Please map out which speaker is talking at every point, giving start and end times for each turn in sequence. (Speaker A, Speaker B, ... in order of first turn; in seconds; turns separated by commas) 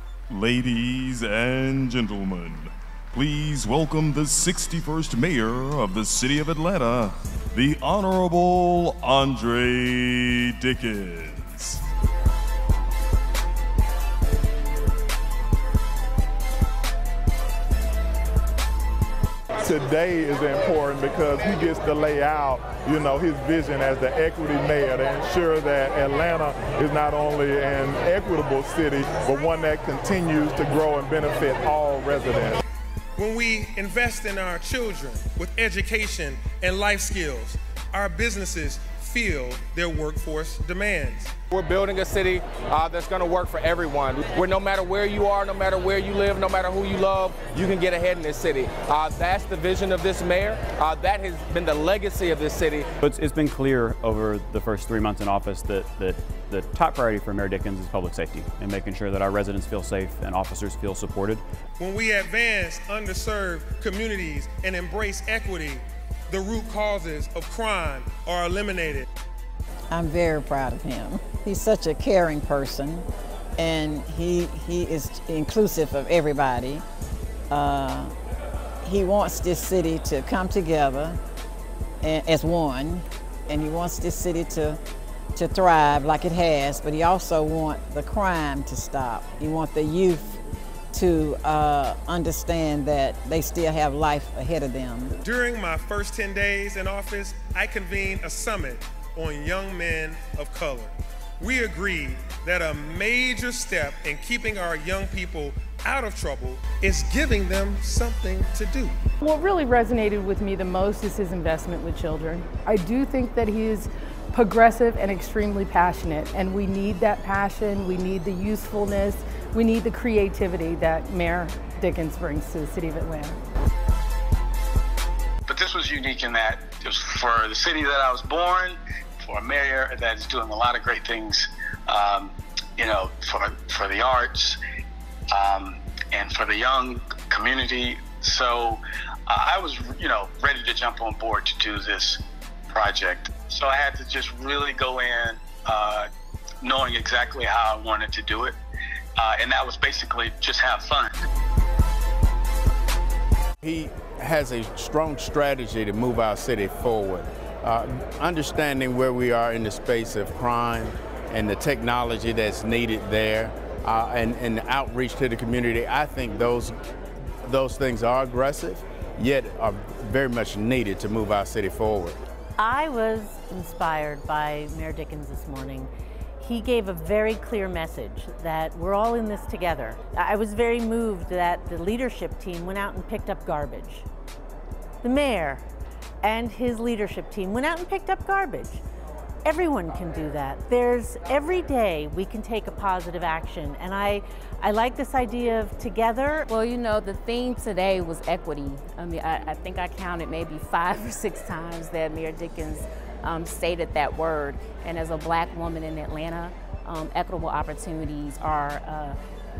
Speaker A: 0.3-11.8, Speaker B: 19.6-32.6, Speaker C: 33.2-41.3, Speaker D: 41.5-52.9, Speaker E: 53.0-61.4, Speaker C: 61.8-69.0, Speaker F: 69.9-73.0, Speaker F: 73.6-76.8, Speaker F: 77.5-78.1, Speaker F: 78.8-81.2, Speaker F: 82.0-84.8, Speaker F: 85.3-95.2, Speaker C: 95.2-109.0, Speaker G: 109.2-123.4, Speaker H: 125.5-134.6, Speaker H: 135.3-146.1, Speaker H: 146.6-148.6, Speaker H: 149.2-151.1, Speaker I: 153.6-166.7, Speaker I: 167.4-172.2, Speaker J: 172.6-184.1, Speaker J: 185.0-185.6, Speaker J: 186.2-188.8, Speaker J: 189.4-196.4, Speaker K: 196.5-209.2